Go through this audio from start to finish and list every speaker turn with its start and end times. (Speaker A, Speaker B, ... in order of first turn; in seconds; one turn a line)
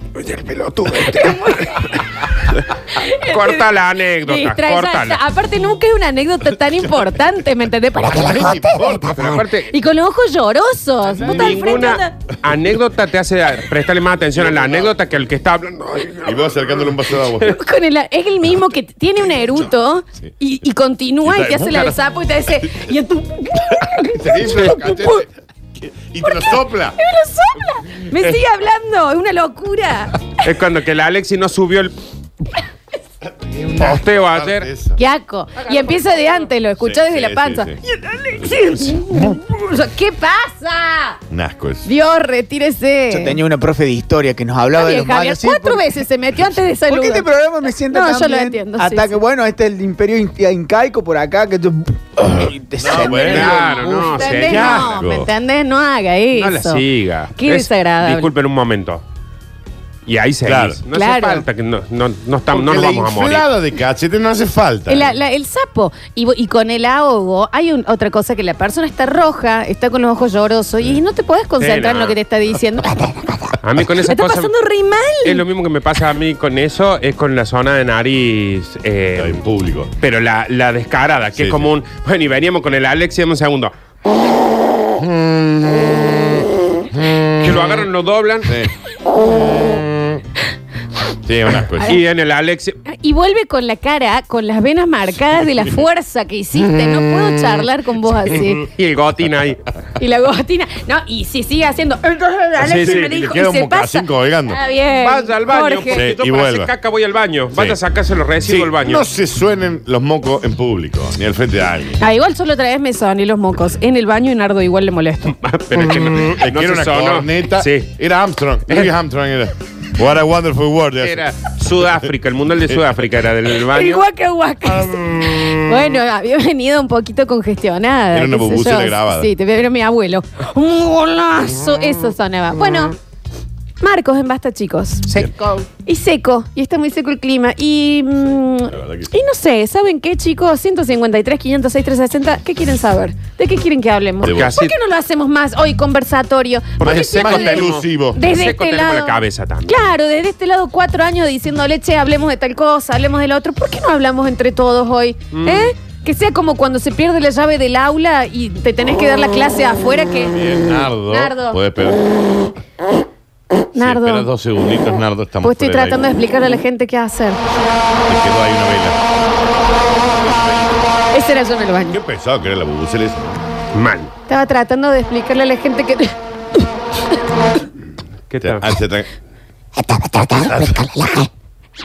Speaker A: 0.2-1.8
Speaker B: 0.9-3.6
Speaker A: 3.2-5.2
Speaker B: 4.2-9.2
Speaker C: 8.0-9.4
Speaker A: 9.0-9.7
Speaker B: 9.7-12.2
Speaker C: 11.0-11.9
Speaker A: 11.2-16.9
Speaker C: 14.3-15.0
Speaker C: 16.2-17.6
Speaker B: 17.4-25.2
Speaker C: 21.2-22.0
Speaker C: 23.7-27.0
Speaker B: 26.3-30.4
Speaker A: 28.1-28.4
Speaker A: 30.4-31.9
Speaker C: 33.2-35.0
Speaker A: 33.8-34.7
Speaker B: 35.0-41.2
Speaker A: 35.7-36.4
Speaker C: 36.8-37.8
Speaker C: 38.4-38.7
Speaker C: 41.3-41.9
Speaker B: 41.8-43.4
Speaker D: 43.1-45.9
Speaker B: 44.8-49.2
Speaker D: 46.9-53.6
Speaker C: 52.7-55.3
Speaker B: 52.9-56.8
Speaker A: 53.1-54.9
Speaker A: 56.4-59.0
Speaker B: 57.4-58.3
Speaker A: 60.1-63.5
Speaker C: 60.4-60.8
Speaker B: 60.9-61.5
Speaker C: 62.5-65.2
Speaker B: 64.9-75.5
Speaker A: 71.6-72.2
Speaker E: 73.0-73.4
Speaker A: 73.6-74.5
Speaker A: 75.2-79.4
Speaker C: 79.2-79.9
Speaker A: 80.0-83.7
Speaker C: 81.3-81.7
Speaker C: 85.0-87.8
Speaker A: 87.4-88.5
Speaker C: 88.5-88.7
Speaker C: 89.3-90.2
Speaker C: 91.2-92.0
Speaker A: 91.8-92.8
Speaker B: 92.9-98.6
Speaker C: 96.6-97.7
Speaker A: 98.3-99.7
Speaker B: 100.0-106.0
Speaker A: 102.6-103.2
Speaker C: 102.6-104.6
Speaker A: 104.9-109.1
Speaker C: 105.9-106.7
Speaker C: 107.5-107.8
Speaker C: 108.4-112.0
Speaker B: 112.0-115.3
Speaker A: 115.4-117.9
Speaker C: 115.7-121.2
Speaker A: 118.7-118.9
Speaker A: 121.0-124.0
Speaker C: 121.8-122.1
Speaker C: 122.7-123.0
Speaker B: 123.6-132.9
Speaker C: 128.1-129.3
Speaker B: 133.8-135.1
Speaker A: 135.1-135.7
Speaker B: 135.8-161.6
Speaker C: 138.7-139.1
Speaker C: 144.2-144.6
Speaker A: 144.2-144.7
Speaker A: 146.8-149.8
Speaker C: 146.8-148.2
Speaker A: 155.3-155.7
Speaker C: 160.3-162.1
Speaker B: 163.7-164.3
Speaker C: 163.8-166.3
Speaker B: 165.4-167.4
Speaker C: 168.1-169.0
Speaker C: 170.1-170.8
Speaker B: 171.1-172.0
Speaker C: 171.9-173.4
Speaker A: 173.7-174.1
Speaker B: 174.3-176.1
Speaker A: 178.3-178.7
Speaker C: 178.4-179.1
Speaker E: 179.8-181.3
Speaker C: 180.4-180.8